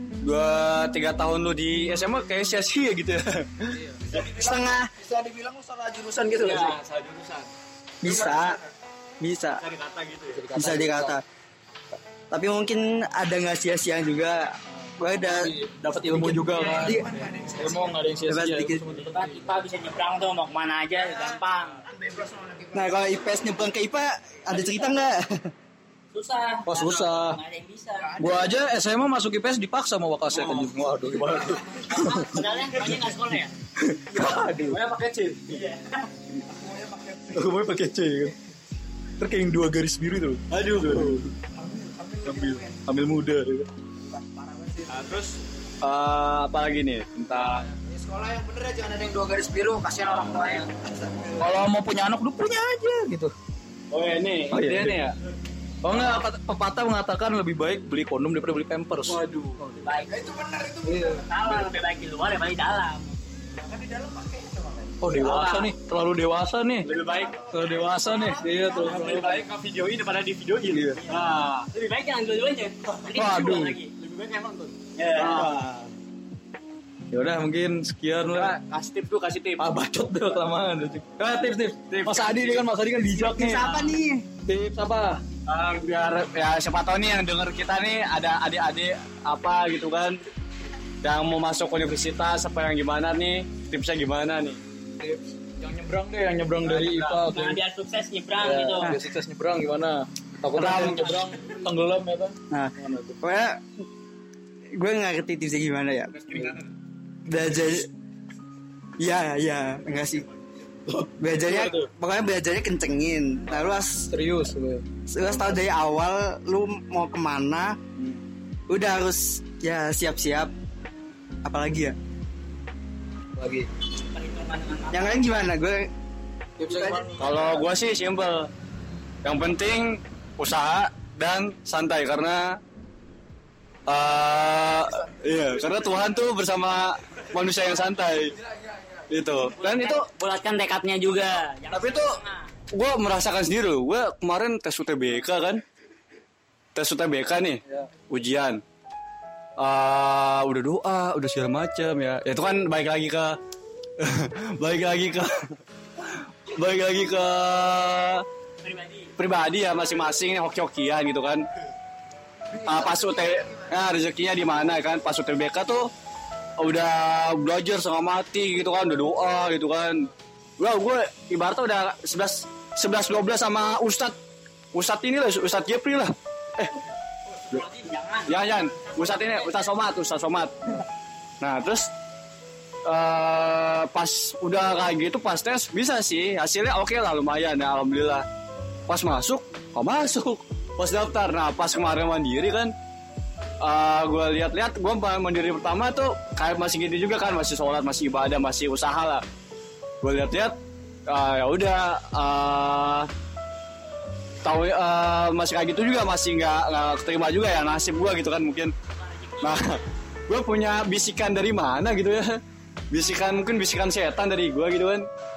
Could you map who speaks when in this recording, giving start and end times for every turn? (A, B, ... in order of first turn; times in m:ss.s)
0:00.2-0:03.8 A
0:03.7-0:04.0 B
0:04.1-0:06.8 C
0:04.2-0:04.9 D
0:06.3-0:07.5 A
0:08.0-0:08.6 D
0:08.0-0:08.6 A
0:09.2-0:09.6 D
0:09.6-0:10.4 A
0:10.3-0:11.2 B
0:10.5-0:11.2 D
0:12.3-0:17.1 D
0:14.7-0:19.6 B
0:16.4-0:18.0 C
0:18.3-0:18.8 D
0:19.0-0:21.8 E
0:21.0-0:23.4 C
0:22.7-0:25.5 D
0:24.5-0:24.9 E
0:26.1-0:28.2 E
0:26.7-0:27.4 B
0:28.0-0:28.7 C
0:28.2-0:32.3 B
0:30.3-0:30.8 A
0:31.9-0:33.5 E
0:33.8-0:34.8 B
0:34.6-0:35.6 A
0:35.5-0:36.0 E
0:36.4-0:37.7 C
0:37.3-0:38.4 B
0:39.2-0:41.4 B
0:40.5-0:41.2 A
0:41.5-0:42.9 C
0:42.2-0:43.7 B
0:44.1-0:45.2 C
0:44.9-0:47.7 A
0:47.3-0:47.7 B
0:47.8-0:51.4 C
0:51.4-0:53.3 B
0:53.9-0:55.2 A
0:54.5-0:55.0 B
0:55.8-0:59.2 B
0:59.1-0:59.8 A
0:59.8-1:00.2 E
1:00.1-1:01.4 C
1:00.8-1:01.7 B
1:01.2-1:03.2 E
1:03.5-1:05.0 C
1:05.0-1:06.9 B
1:05.2-1:05.7 E
1:06.8-1:07.3 A
1:06.9-1:09.5 C
1:07.5-1:09.4 B
1:08.8-1:11.7 A
1:10.7-1:11.0 B
1:11.1-1:13.9 E
1:13.0-1:15.9 A
1:13.1-1:13.8 B
1:15.0-1:15.6 E
1:17.1-1:18.5 B
1:18.3-1:19.7 A
1:19.6-1:23.8 B
1:21.7-1:22.7 A
1:23.2-1:24.3 D
1:24.5-1:25.2 B
1:25.5-1:30.2 A
1:31.0-1:34.6 A
1:35.0-1:37.6 B
1:36.7-1:37.2 A
1:36.8-1:39.0 E
1:38.4-1:43.2 B
1:40.5-1:41.2 A
1:42.5-1:43.6 D
1:44.8-1:46.2 D
1:46.3-1:46.6 B
1:47.3-1:47.9 D
1:49.0-1:50.3 D
1:50.9-1:51.9 B
1:51.2-1:54.1 D
1:53.5-1:55.6 B
1:55.1-1:57.8 D
1:58.7-2:00.5 D
2:01.4-2:02.0 D
2:03.4-2:03.7 B
2:04.1-2:05.2 E
2:04.9-2:05.9 D
2:06.6-2:07.5 B
2:06.7-2:07.1 D
2:07.2-2:08.5 A
2:09.2-2:12.6 A
2:13.9-2:18.4 A
2:14.8-2:15.9 C
2:18.5-2:19.1 C
2:19.1-2:20.1 A
2:19.5-2:22.5 E
2:21.7-2:22.2 A
2:22.7-2:25.6 A
2:26.8-2:28.6 A
2:29.6-2:33.4 A
2:34.0-2:38.2 A
2:38.6-2:39.1 E
2:39.2-2:41.4 A
2:42.5-2:43.8 C
2:42.6-2:45.9 A
2:46.6-2:54.2 A
2:54.7-2:56.8 A
2:57.5-2:59.7 E
2:58.3-3:00.8 A
3:01.4-3:01.9 A
3:02.9-3:08.2 A
3:08.9-3:12.7 A
3:13.6-3:19.2 A
3:20.0-3:20.6 A
3:21.1-3:23.1 A
3:24.4-3:28.7 A
3:29.0-3:29.8 E
3:29.4-3:32.4 A
3:32.9-3:35.1 A